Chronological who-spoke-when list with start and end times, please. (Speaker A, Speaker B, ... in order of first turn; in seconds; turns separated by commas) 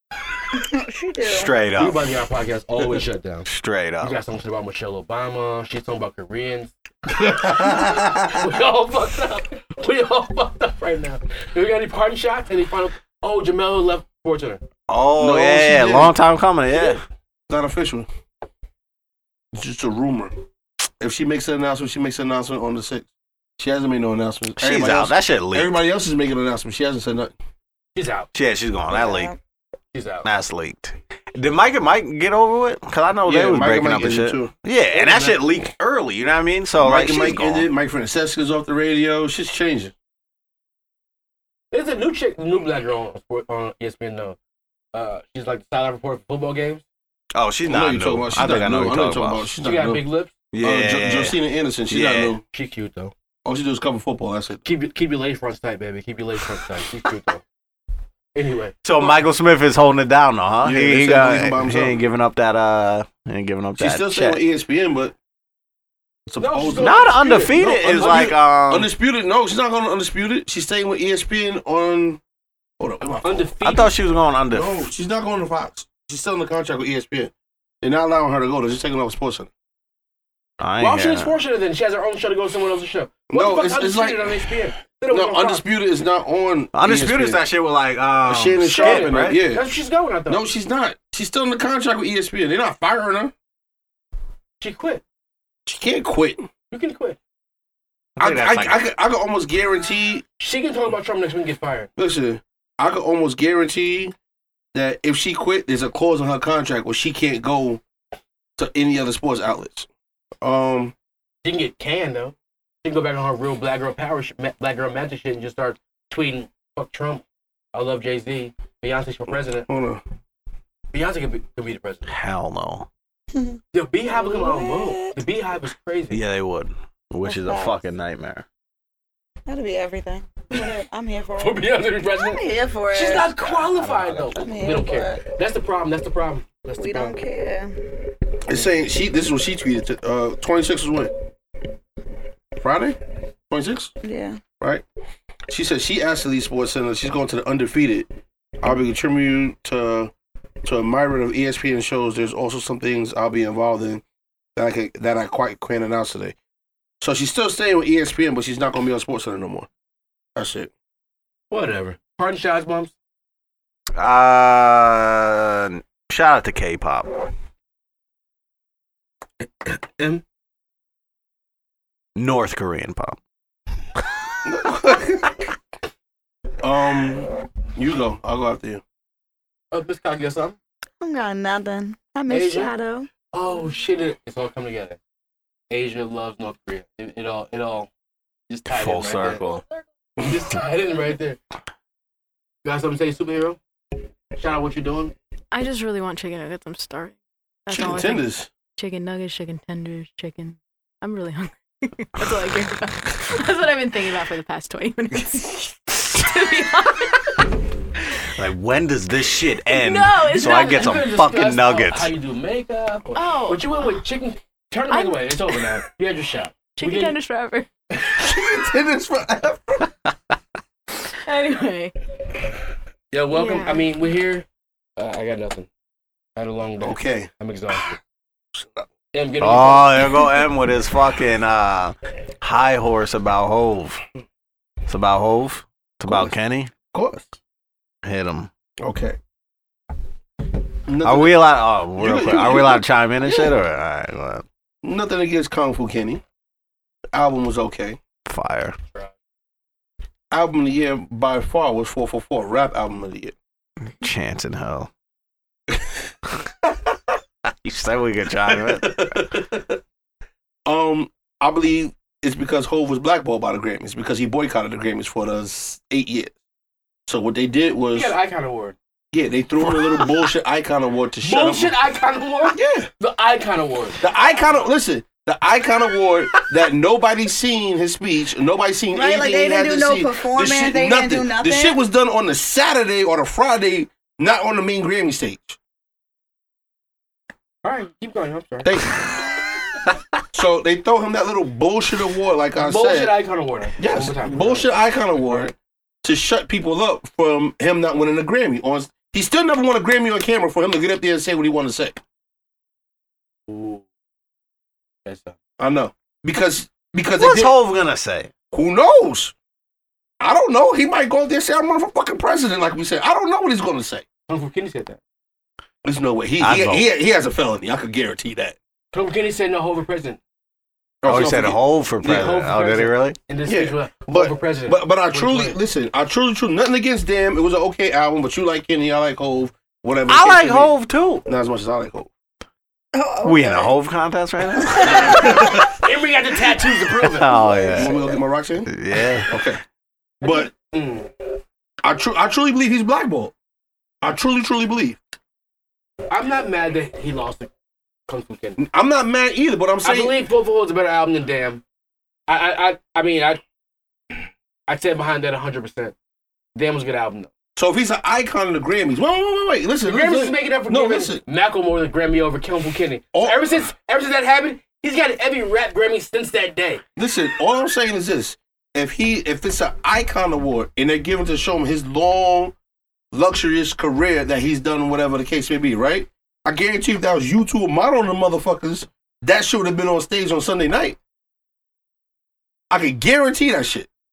Speaker A: 0.5-1.5, Speaker B: 1.2-2.0, Speaker C: 1.8-3.5, Speaker B: 3.5-4.2, Speaker C: 4.0-14.6, Speaker B: 14.9-17.0, Speaker D: 15.2-16.1, Speaker C: 16.7-17.0, Speaker D: 17.5-18.1, Speaker D: 19.5-20.3, Speaker D: 21.0-27.3, Speaker B: 24.6-25.7, Speaker C: 27.9-28.3, Speaker B: 28.3-29.3, Speaker A: 28.9-29.4, Speaker C: 29.9-30.3, Speaker B: 30.2-37.7, Speaker D: 33.2-34.5, Speaker C: 34.9-35.3, Speaker D: 36.8-39.9, Speaker C: 41.7-44.4, Speaker C: 44.9-46.8, Speaker B: 47.3-49.5, Speaker D: 47.6-50.0, Speaker C: 49.6-50.3, Speaker B: 50.5-51.4, Speaker D: 50.6-52.4, Speaker B: 51.9-52.4, Speaker C: 52.5-53.1, Speaker D: 53.4-54.6, Speaker C: 54.6-57.4, Speaker C: 58.3-59.2, Speaker B: 58.8-64.4, Speaker D: 60.6-62.0, Speaker D: 63.8-65.1, Speaker D: 66.3-72.2, Speaker C: 66.4-68.3, Speaker B: 66.8-68.9, Speaker D: 72.8-73.5, Speaker C: 73.2-73.9, Speaker B: 73.6-74.9, Speaker D: 74.5-79.5, Speaker B: 80.6-81.4, Speaker C: 80.8-85.6, Speaker D: 83.3-84.4, Speaker D: 85.1-87.4, Speaker B: 86.7-89.4, Speaker D: 88.2-93.3, Speaker C: 88.6-90.4, Speaker C: 94.6-95.0, Speaker D: 95.7-96.5, Speaker C: 96.7-97.2, Speaker B: 98.2-98.8, Speaker D: 98.2-100.2, Speaker C: 100.4-101.9, Speaker D: 102.0-104.1, Speaker D: 104.7-107.8, Speaker D: 108.6-109.9, Speaker D: 110.4-110.9, Speaker C: 111.4-119.7, Speaker D: 119.7-120.0, Speaker C: 120.9-122.1, Speaker B: 122.1-122.9, Speaker C: 123.7-126.2, Speaker A: 124.1-125.2, Speaker B: 126.1-128.4, Speaker A: 127.2-127.8, Speaker A: 129.4-133.6, Speaker C: 131.4-137.2, Speaker A: 134.2-135.2, Speaker A: 136.8-137.7, Speaker D: 138.4-141.1, Speaker D: 142.6-143.0, Speaker D: 143.5-143.9, Speaker A: 144.0-144.4, Speaker D: 144.5-144.8, Speaker D: 145.5-148.1, Speaker D: 148.6-150.1, Speaker D: 150.6-154.0, Speaker D: 154.6-156.3, Speaker D: 157.0-159.7, Speaker D: 160.4-160.7, Speaker C: 161.5-162.9, Speaker B: 163.9-167.1, Speaker C: 169.6-170.2, Speaker B: 172.2-173.2, Speaker D: 174.4-175.3, Speaker D: 176.6-178.8, Speaker C: 179.7-180.6, Speaker A: 181.0-183.1, Speaker C: 182.3-182.7, Speaker C: 183.3-185.0, Speaker C: 185.7-187.9, Speaker C: 188.5-189.4, Speaker B: 188.7-189.6, Speaker C: 190.2-191.4, Speaker C: 192.6-193.6, Speaker C: 194.3-195.1, Speaker E: 195.5-207.5, Speaker D: 197.7-198.5, Speaker B: 208.3-212.1, Speaker E: 209.7-211.1, Speaker C: 210.4-217.1, Speaker E: 213.2-214.0, Speaker E: 214.9-215.2, Speaker E: 216.8-217.7, Speaker D: 218.1-219.9, Speaker E: 221.2-221.9, Speaker C: 223.1-224.4, Speaker E: 223.3-223.9, Speaker C: 225.0-225.7, Speaker C: 226.4-228.0, Speaker D: 226.8-227.3, Speaker D: 228.5-228.9, Speaker C: 229.1-230.2, Speaker B: 229.4-234.0, Speaker B: 234.9-236.7, Speaker D: 236.0-237.3, Speaker B: 238.0-238.5, Speaker D: 238.8-239.2, Speaker D: 240.9-241.4, Speaker B: 241.0-244.4, Speaker D: 242.0-242.8, Speaker D: 244.8-246.2, Speaker D: 247.1-248.0, Speaker B: 248.3-248.8, Speaker D: 250.3-253.3, Speaker B: 254.0-254.9, Speaker B: 257.4-259.4, Speaker D: 258.8-259.6, Speaker D: 260.6-266.3, Speaker D: 267.1-268.1, Speaker C: 267.9-268.8, Speaker D: 269.1-271.7, Speaker C: 271.2-274.0, Speaker D: 272.5-272.9, Speaker D: 274.0-285.6, Speaker A: 278.9-281.8, Speaker C: 287.6-288.7, Speaker D: 288.6-289.1, Speaker D: 290.3-293.1, Speaker C: 292.6-294.7, Speaker D: 293.8-302.0, Speaker C: 303.5-303.8, Speaker C: 305.0-305.4, Speaker D: 305.6-307.5, Speaker B: 307.1-308.3, Speaker D: 308.5-309.3, Speaker D: 310.2-314.0, Speaker C: 314.3-315.0, Speaker D: 315.8-318.6, Speaker B: 316.4-316.9, Speaker C: 318.9-320.2, Speaker D: 321.0-322.3, Speaker B: 321.0-323.2, Speaker C: 322.0-325.6, Speaker D: 323.4-330.7, Speaker B: 330.1-331.2, Speaker D: 331.3-332.1, Speaker A: 332.9-333.7, Speaker B: 333.2-335.6, Speaker C: 334.8-337.8, Speaker D: 334.9-335.7, Speaker B: 337.0-338.0, Speaker D: 337.7-339.6, Speaker B: 338.7-339.4, Speaker D: 340.2-340.5, Speaker C: 340.2-341.1, Speaker D: 341.8-343.3, Speaker D: 344.0-345.0, Speaker C: 346.1-347.5, Speaker C: 348.1-348.6, Speaker D: 348.6-350.2, Speaker C: 349.8-351.6, Speaker C: 352.3-353.4, Speaker C: 354.7-355.9, Speaker C: 356.5-357.3, Speaker D: 357.6-361.2, Speaker C: 359.8-366.8, Speaker D: 363.1-363.5, Speaker D: 367.0-372.5, Speaker D: 373.1-381.0, Speaker D: 382.7-383.9